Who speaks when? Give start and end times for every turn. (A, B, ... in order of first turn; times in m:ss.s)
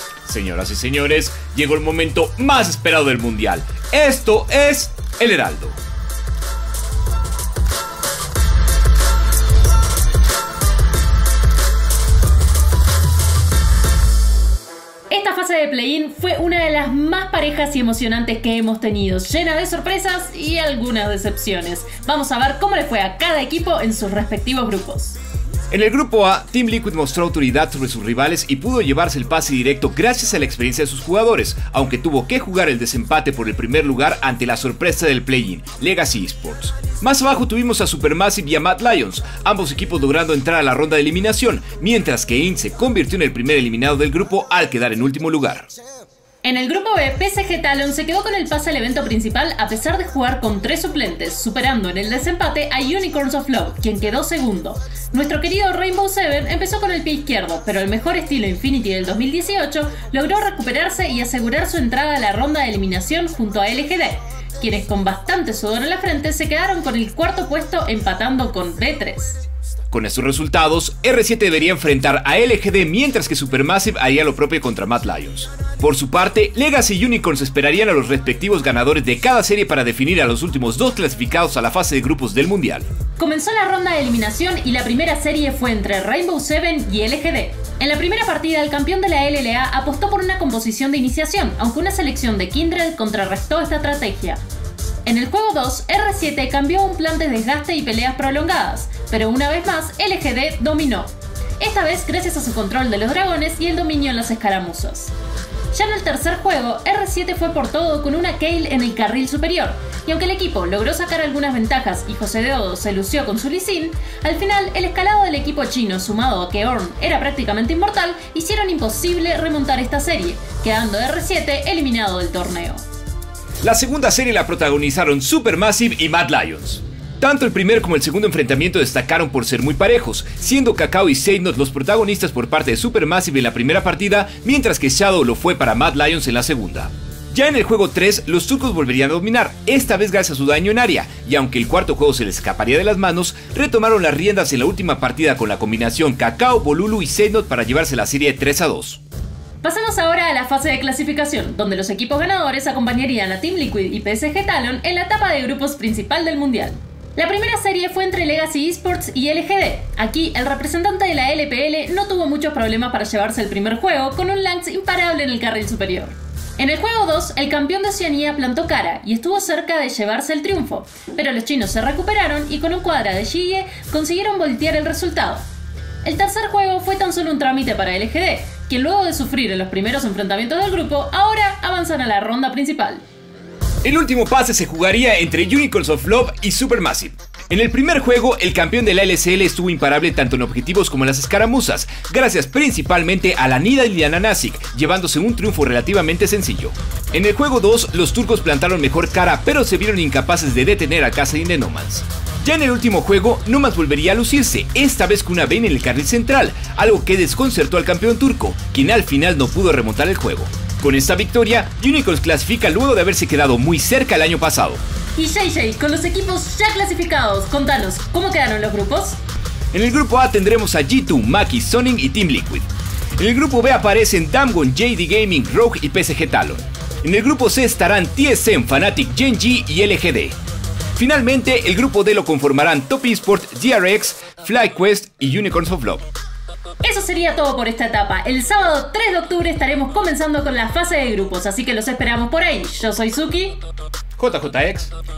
0:00.2-0:05.8 A
0:15.1-0:25.2 B
0:25.7-0:45.7 A
0:46.4-1:09.4 B
1:09.9-1:22.8 A
1:23.2-1:34.4 B
1:35.0-1:45.1 B
1:45.7-2:02.8 B
2:03.6-2:29.0 A
2:29.6-2:55.4 B
2:56.0-3:03.0 B
3:03.8-3:34.8 A
3:35.2-3:39.2 B
3:39.7-3:42.7 A
3:43.2-3:50.3 A
3:50.9-3:56.0 A
3:56.8-4:03.6 B
4:04.2-4:04.9 A